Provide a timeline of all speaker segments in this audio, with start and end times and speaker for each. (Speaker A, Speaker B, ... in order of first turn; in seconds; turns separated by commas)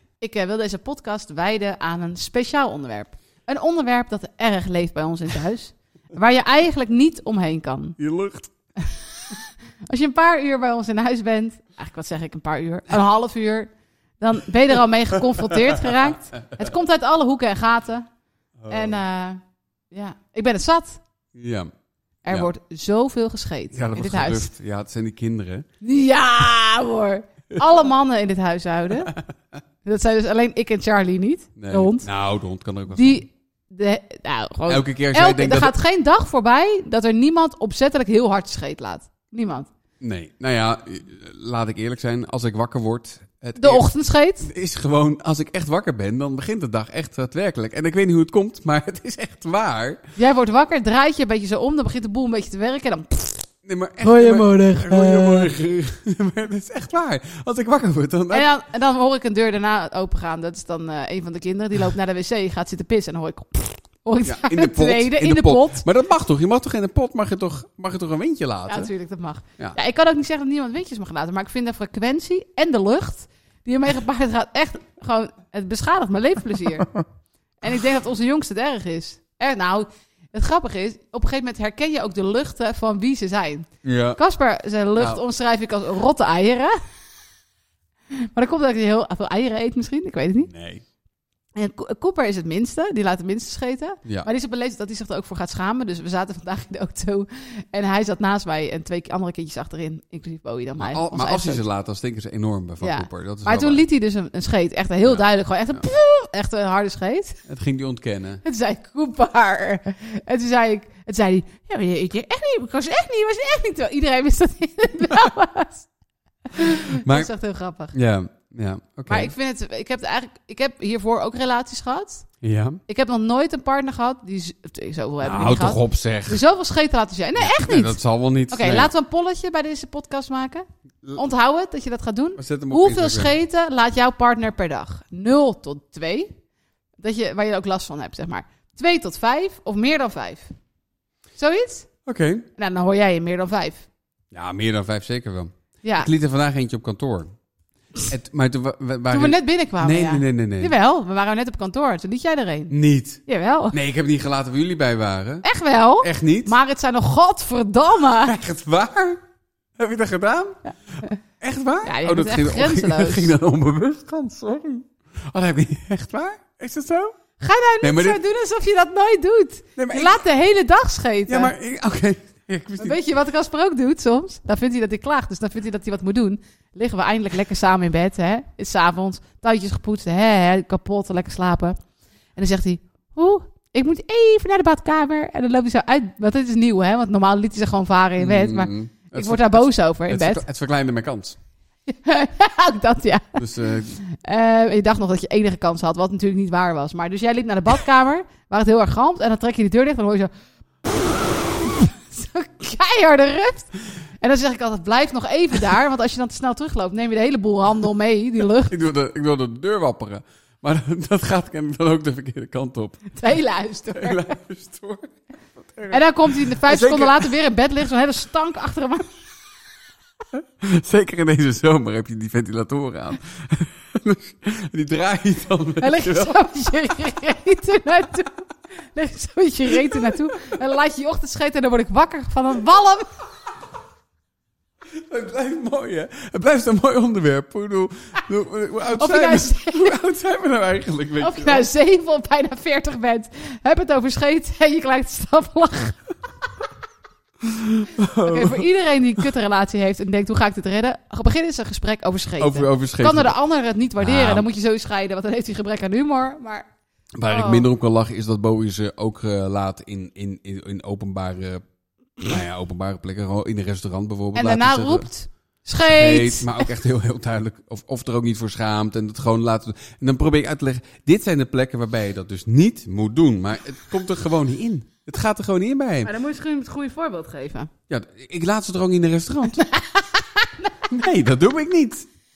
Speaker A: 0.2-8.0, Speaker B: 8.0-8.5, Speaker A: 8.8-18.1, Speaker B: 15.3-16.1, Speaker B: 18.6-19.0, Speaker A: 18.7-19.4, Speaker A: 19.9-21.0, Speaker B: 21.3-21.7, Speaker A: 22.2-24.5, Speaker B: 23.7-25.6, Speaker A: 25.8-29.1, Speaker A: 29.8-32.1, Speaker B: 31.6-33.2, Speaker A: 32.9-39.7, Speaker B: 34.7-35.7, Speaker B: 40.0-43.9, Speaker A: 43.6-44.5, Speaker B: 44.4-50.0, Speaker A: 50.1-53.5, Speaker B: 53.6-58.5, Speaker A: 54.0-55.5, Speaker A: 58.3-65.8, Speaker B: 64.2-68.9, Speaker A: 68.7-76.9, Speaker A: 77.6-86.8, Speaker B: 83.8-84.2, Speaker A: 88.1-90.5, Speaker B: 90.4-90.8, Speaker A: 91.5-101.6, Speaker B: 100.8-103.8, Speaker A: 102.8-107.4, Speaker B: 105.0-105.8, Speaker B: 107.5-108.4, Speaker A: 108.4-115.9, Speaker A: 116.5-117.9, Speaker B: 116.6-117.3, Speaker B: 117.9-119.3, Speaker A: 119.1-122.3, Speaker B: 122.4-122.8, Speaker A: 122.9-128.0, Speaker B: 125.2-126.4, Speaker B: 127.4-128.9, Speaker A: 128.5-136.3, Speaker B: 132.4-133.3, Speaker A: 137.0-140.5, Speaker A: 141.4-141.9, Speaker B: 142.1-142.4, Speaker A: 142.6-143.9, Speaker B: 144.3-147.3, Speaker A: 145.8-146.1, Speaker B: 148.1-150.7, Speaker A: 149.1-152.7, Speaker B: 152.7-153.2, Speaker A: 153.3-153.8, Speaker B: 153.7-155.4, Speaker A: 155.4-158.4, Speaker B: 156.0-156.5, Speaker B: 158.2-159.2, Speaker B: 159.8-160.6, Speaker A: 160.6-161.2, Speaker B: 161.4-167.1, Speaker A: 161.8-163.3, Speaker A: 167.4-171.5, Speaker B: 167.8-168.2, Speaker B: 169.8-170.2, Speaker B: 171.3-173.0, Speaker A: 172.8-181.8, Speaker A: 182.3-190.4, Speaker B: 188.2-191.3, Speaker A: 191.9-200.3, Speaker B: 193.3-194.0, Speaker A: 201.6-208.7, Speaker B: 208.7-213.1, Speaker A: 213.1-214.3, Speaker B: 213.9-217.3, Speaker A: 215.9-219.1, Speaker B: 220.3-226.4, Speaker A: 225.8-228.4, Speaker A: 228.9-233.1, Speaker B: 234.9-241.7, Speaker A: 238.9-239.9, Speaker A: 241.2-246.0, Speaker B: 247.4-248.7, Speaker A: 248.2-256.7, Speaker B: 252.4-253.3, Speaker B: 254.0-254.5, Speaker B: 257.2-261.6, Speaker A: 257.2-257.7, Speaker B: 262.2-265.1, Speaker A: 264.3-266.7, Speaker B: 265.9-276.1, Speaker A: 276.0-277.7, Speaker B: 277.9-279.6, Speaker A: 279.6-280.8, Speaker B: 280.9-282.1